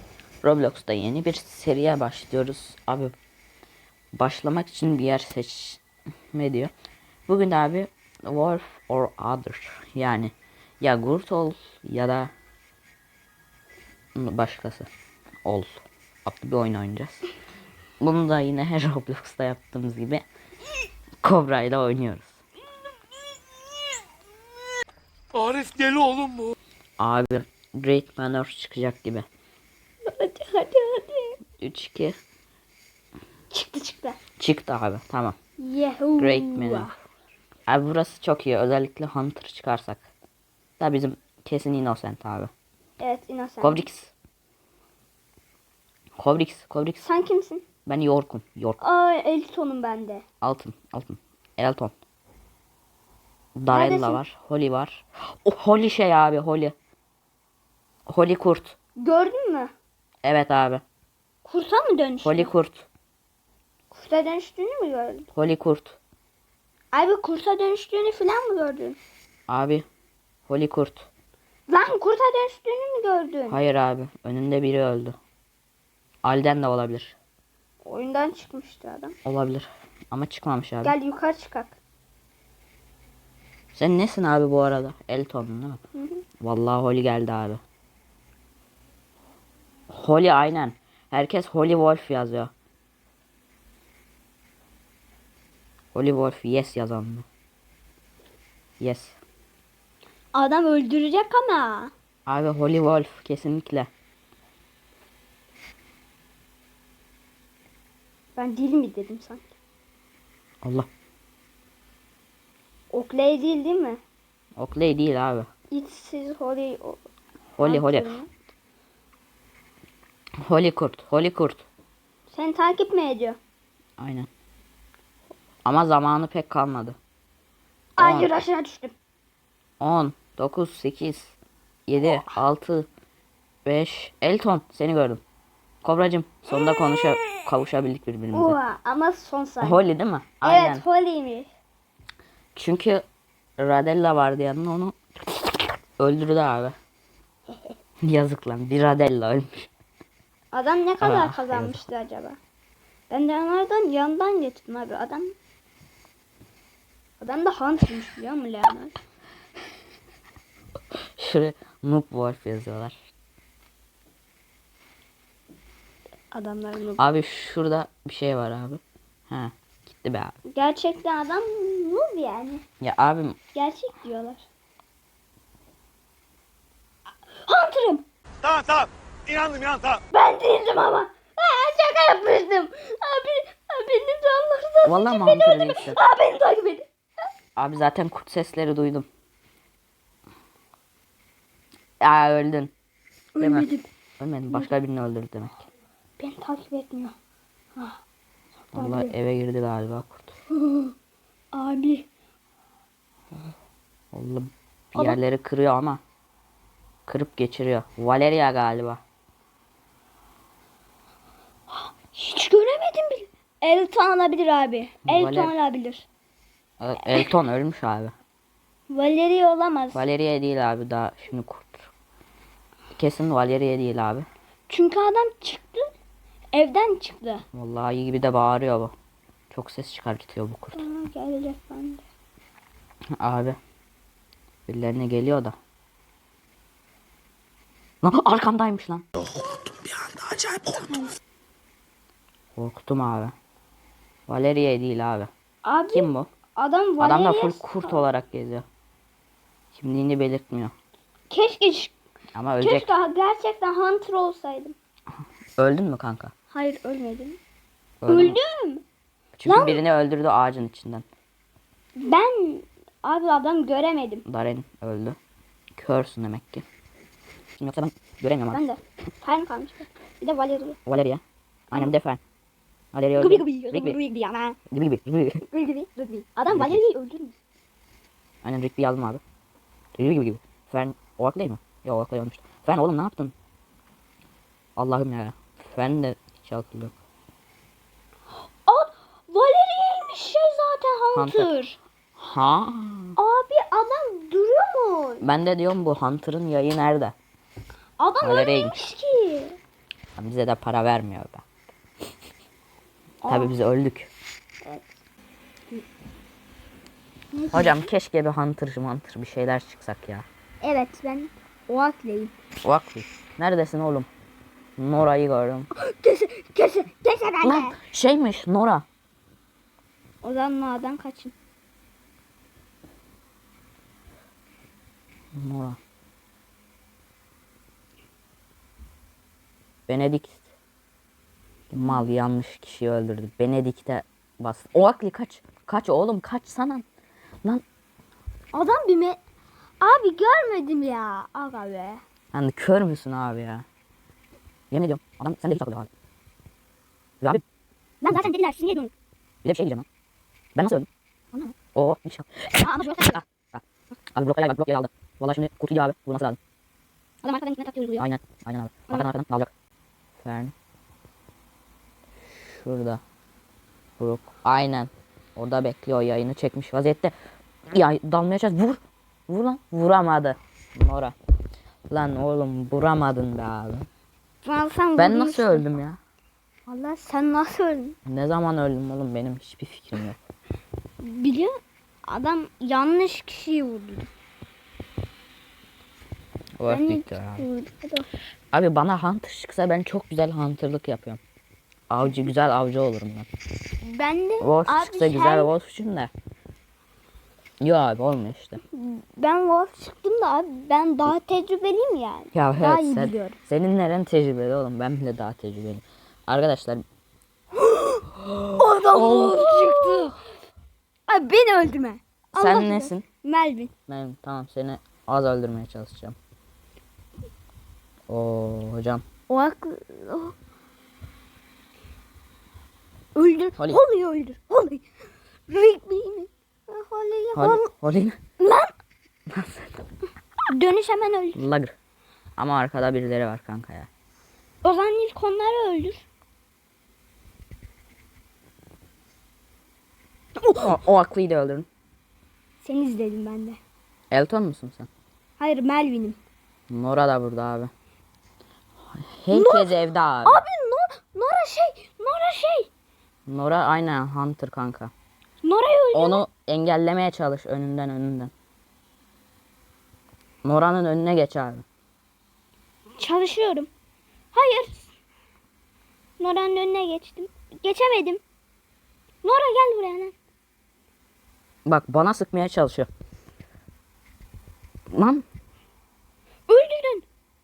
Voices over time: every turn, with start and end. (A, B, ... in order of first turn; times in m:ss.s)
0:00.4-0:03.1 A
0:04.2-0:05.8 A
0:06.3-0:06.7 A
0:07.3-0:12.3 A
0:14.2-0:14.9 A
0:15.4-0:17.2 A
0:18.0-0:20.2 A
0:21.2-0:22.3 A
0:25.5-0:26.3 B
0:27.0-0:29.3 A
0:30.0-0:31.4 C
0:31.6-0:32.2 A
0:33.5-0:34.2 C
0:34.4-0:35.4 A
0:35.6-0:37.0 C
0:36.2-0:36.9 A
0:37.7-0:40.1 A
0:40.8-0:42.5 A
0:43.0-0:43.9 C
0:43.6-0:44.1 A
0:46.2-0:47.0 A
0:47.0-0:47.6 C
0:47.9-0:48.8 A
0:48.8-0:50.2 C
0:50.4-0:51.9 A
0:53.6-0:56.8 A
0:53.7-0:54.2 C
0:58.1-0:58.8 A
0:59.0-0:59.7 C
1:00.2-1:00.8 A
1:01.4-1:02.5 C
1:02.2-1:02.9 A
1:03.9-1:05.3 C
1:05.3-1:06.0 A
1:06.9-1:09.0 C
1:09.5-1:09.9 A
1:10.5-1:11.1 A
1:11.7-1:13.6 C
1:13.5-1:15.2 A
1:16.2-1:17.2 A
1:17.8-1:19.2 C
1:19.2-1:21.0 A
1:20.8-1:21.8 C
1:23.7-1:25.8 A
1:26.0-1:26.2 C
1:26.4-1:27.6 A
1:29.9-1:32.5 A
1:35.9-1:37.3 A
1:38.8-1:39.2 A
1:40.3-1:41.9 C
1:42.3-1:43.9 A
1:48.4-1:49.5 C
1:50.6-1:50.9 A
1:52.9-1:54.0 C
1:54.6-1:55.5 A
1:55.7-1:57.0 C
1:57.6-1:58.2 A
1:57.6-1:58.3 C
2:00.4-2:01.7 A
2:02.3-2:03.4 C
2:04.0-2:04.3 A
2:05.6-2:07.0 A
2:08.0-2:08.9 C
2:08.0-2:08.4 A
2:09.8-2:11.4 A
2:11.9-2:12.9 A
2:13.7-2:15.2 A
2:15.8-2:18.6 A
2:16.5-2:17.5 C
2:18.3-2:19.8 C
2:19.6-2:20.8 A
2:20.4-2:21.5 C
2:22.6-2:23.0 A
2:23.6-2:26.8 A
2:28.0-2:29.7 A
2:30.5-2:32.4 C
2:31.0-2:31.8 A
2:33.1-2:35.3 C
2:37.2-2:39.0 C
2:41.2-2:43.0 A
2:46.3-2:47.0 C
2:47.0-2:50.4 A
2:50.5-2:52.6 C
2:52.8-2:53.4 A
2:53.6-2:54.4 C
2:57.5-2:58.0 C
2:58.5-3:00.0 B
3:00.1-3:06.8 C
3:04.8-3:06.0 A
3:07.6-3:09.1 A
3:12.0-3:12.7 A
3:13.4-3:13.9 C
3:13.4-3:15.6 A
3:16.2-3:17.2 C
3:18.7-3:19.1 C
3:18.7-3:20.3 A
3:20.5-3:20.9 C
3:21.5-3:22.1 C
3:24.1-3:26.0 A
3:27.1-3:29.0 A
3:31.8-3:36.0 C
3:35.1-3:35.6 A
3:36.8-3:38.1 A
3:37.0-3:37.3 C
3:38.9-3:40.0 C
3:39.9-3:41.9 A
3:42.9-3:44.3 A
3:44.7-3:45.9 C
3:46.5-3:47.4 C
3:47.5-3:48.9 A
3:49.5-3:50.8 A
3:50.8-3:52.0 C
3:53.2-3:53.6 A
3:54.7-3:55.6 A
3:58.0-4:00.9 A
4:02.6-4:03.3 A
4:04.3-4:05.3 A
4:05.6-4:08.1 C
4:05.9-4:06.3 A
4:07.0-4:08.7 A
4:09.7-4:10.7 A
4:11.3-4:12.0 C
4:12.4-4:12.9 A
4:12.6-4:14.8 C
4:15.6-4:16.3 A
4:16.5-4:17.4 C
4:18.0-4:18.4 A
4:18.1-4:18.8 C
4:19.4-4:21.1 A
4:19.5-4:19.8 C
4:22.0-4:24.2 C
4:24.3-4:25.2 A
4:25.8-4:26.6 A
4:27.6-4:28.6 A
4:28.5-4:30.8 C
4:30.9-4:32.2 A
4:32.9-4:34.0 A
4:33.2-4:34.6 C
4:34.7-4:35.4 A
4:35.5-4:37.4 C
4:36.5-4:36.8 A
4:38.4-4:39.2 A
4:40.0-4:43.3 A
4:44.8-4:47.0 A
4:48.7-4:51.8 C
4:51.1-4:51.5 A
4:52.2-4:53.2 A
4:53.2-4:55.2 C
4:55.2-4:57.2 A
4:58.0-4:59.6 C
4:58.2-4:58.8 A
5:00.2-5:01.4 A
5:03.2-5:03.6 C
5:03.3-5:04.1 A
5:07.3-5:07.9 C
5:07.5-5:10.3 A
5:10.6-5:12.3 C
5:12.6-5:14.1 A
5:14.8-5:15.7 A
5:15.8-5:17.8 C
5:17.4-5:18.8 A
5:20.2-5:21.3 C
5:25.4-5:25.8 A
5:29.9-5:30.5 A
5:31.7-5:36.8 A
5:38.5-5:39.2 C
5:39.8-5:42.0 C
5:42.3-5:43.6 A
5:44.7-5:45.9 A
5:48.0-5:48.9 C
5:49.4-5:49.9 A
5:50.6-5:50.9 A
5:51.7-5:53.6 A
5:52.6-5:53.2 C
5:54.2-5:56.4 A
5:57.2-5:58.0 C
5:58.0-5:59.5 A
6:00.2-6:00.5 A
6:02.3-6:03.0 A
6:04.0-6:07.1 A
6:07.7-6:11.2 A
6:11.9-6:13.9 A
6:14.4-6:15.7 C
6:15.0-6:16.0 A
6:16.7-6:18.0 C
6:18.1-6:20.2 A
6:21.0-6:21.5 C
6:22.1-6:24.1 C
6:26.6-6:27.4 A
6:26.7-6:28.1 C
6:28.5-6:31.2 A
6:31.9-6:33.3 A
6:33.8-6:35.5 C
6:34.4-6:36.1 A
6:37.6-6:38.6 A
6:38.6-6:43.4 C
6:42.3-6:46.8 A
6:47.6-6:48.0 C
6:48.2-6:50.1 A
6:48.6-6:50.2 C
6:51.1-6:53.7 C
6:52.4-6:53.1 A
6:53.9-6:56.2 A
6:58.1-6:59.0 A
6:59.3-7:00.4 C
7:03.2-7:04.8 C
7:05.5-7:07.7 C
7:07.4-7:08.2 A
7:08.4-7:08.7 C
7:09.3-7:09.8 A
7:10.5-7:11.4 C
7:11.4-7:11.7 A
7:12.4-7:13.9 A
7:14.6-7:16.0 C
7:20.4-7:20.7 C
7:20.6-7:21.7 A
7:22.6-7:23.6 C
7:24.1-7:24.9 A
7:25.4-7:26.2 C
7:26.7-7:27.7 A
7:28.9-7:30.4 A
7:29.3-7:32.7 C
7:33.3-7:34.9 A
7:35.4-7:36.2 C
7:35.9-7:38.3 A
7:40.4-7:41.6 A
7:43.0-7:43.7 C
7:44.3-7:44.9 C
7:46.2-7:48.2 C
7:49.2-7:50.1 C
7:51.7-7:52.9 A
7:54.9-7:55.2 A
7:56.5-7:57.0 C